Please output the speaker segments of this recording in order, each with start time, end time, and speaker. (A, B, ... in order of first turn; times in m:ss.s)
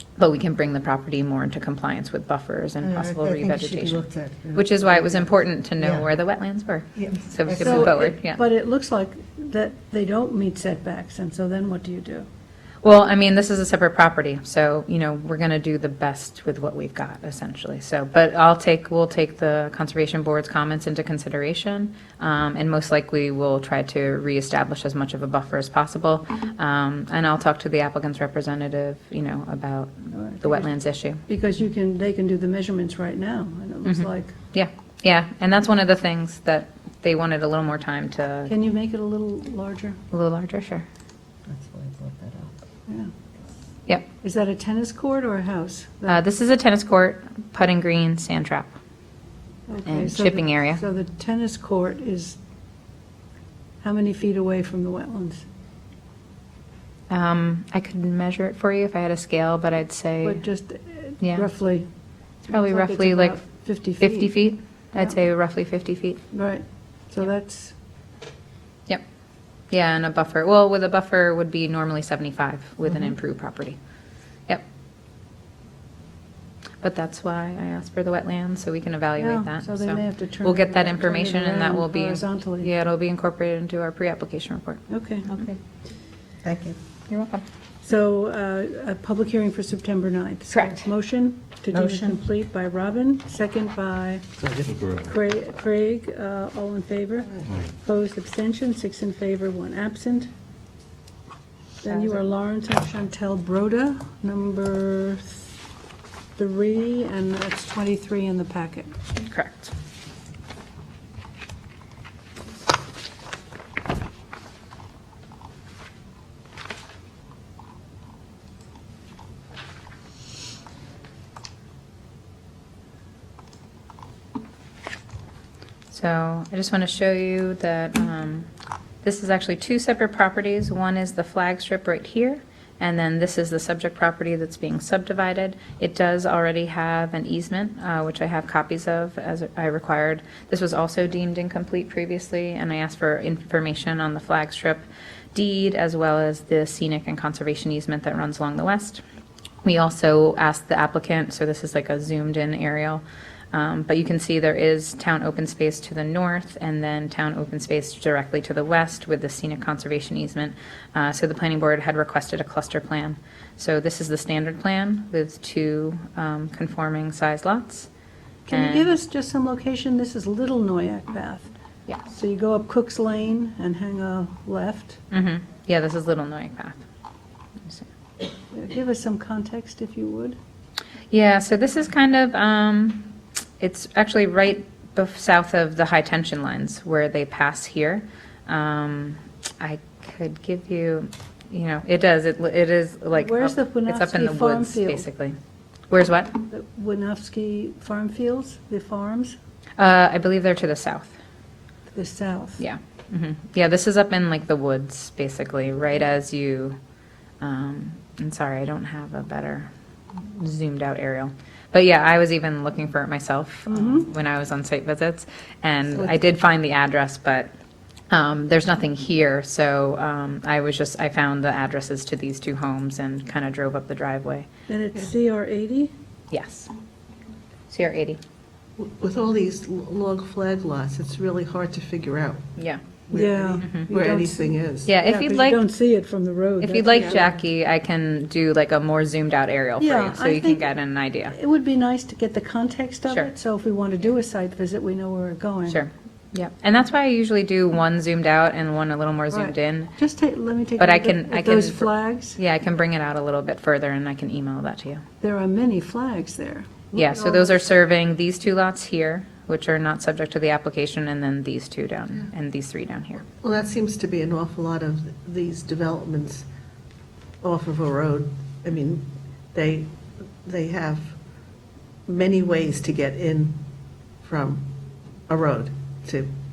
0:00.2-0:08.4 A
0:02.8-0:06.1 B
0:07.0-0:08.0 B
0:07.6-0:12.3 C
0:12.8-0:31.2 A
0:30.1-0:30.7 C
0:31.3-0:34.3 C
0:33.9-0:38.5 A
0:38.5-0:40.0 C
0:40.1-0:40.9 A
0:41.5-0:42.5 B
0:44.2-0:46.2 C
0:46.1-0:48.7 A
0:49.7-0:52.4 C
0:49.9-0:50.8 A
0:53.8-0:55.4 C
0:57.1-1:00.4 A
1:00.2-1:01.9 C
1:01.2-1:01.5 A
1:02.5-1:03.4 A
1:02.5-1:04.3 C
1:04.0-1:06.2 A
1:06.3-1:07.8 C
1:09.7-1:13.8 A
1:16.8-1:24.8 A
1:19.2-1:22.7 C
1:24.9-1:25.3 C
1:25.3-1:25.6 B
1:26.4-1:26.8 B
1:27.1-1:27.4 A
1:27.8-1:34.3 C
1:30.5-1:30.8 A
1:31.7-1:32.2 B
1:34.4-1:34.9 B
1:35.0-1:40.3 C
1:41.8-1:45.5 C
1:46.4-1:48.9 C
1:49.2-1:49.7 A
2:05.9-2:08.5 A
2:09.0-2:29.0 A
2:29.6-2:47.9 A
2:48.5-2:51.5 C
2:48.5-2:48.9 A
2:52.1-2:55.0 C
2:55.1-2:56.8 A
2:58.5-3:00.4 C
3:01.1-3:15.4 A
3:13.2-3:15.1 C
3:15.9-3:16.4 A
3:16.5-3:19.4 C
3:19.8-3:21.2 A
3:21.9-3:22.6 C
3:22.6-3:26.8 A
3:27.4-3:29.7 A
3:30.2-3:37.5 A
3:33.7-3:34.1 C
3:35.9-3:36.2 B
3:38.1-3:44.5 A
3:44.7-3:45.9 C
3:46.3-3:46.7 A
3:47.7-3:48.2 A
3:48.8-3:52.4 B
3:52.6-3:52.8 A
3:53.1-3:54.9 B
3:53.1-3:57.4 C
3:53.6-3:53.9 A
3:54.8-3:55.6 A
3:56.6-4:01.4 A
3:59.8-4:00.7 C
4:01.3-4:05.8 C
4:05.7-4:09.9 A
4:09.3-4:12.4 C
4:10.8-4:15.0 A
4:15.2-4:17.6 C
4:16.9-4:23.3 A
4:23.4-4:26.5 B
4:27.4-4:31.2 B
4:32.1-4:33.6 B
4:34.2-4:34.7 B
4:35.3-4:36.3 B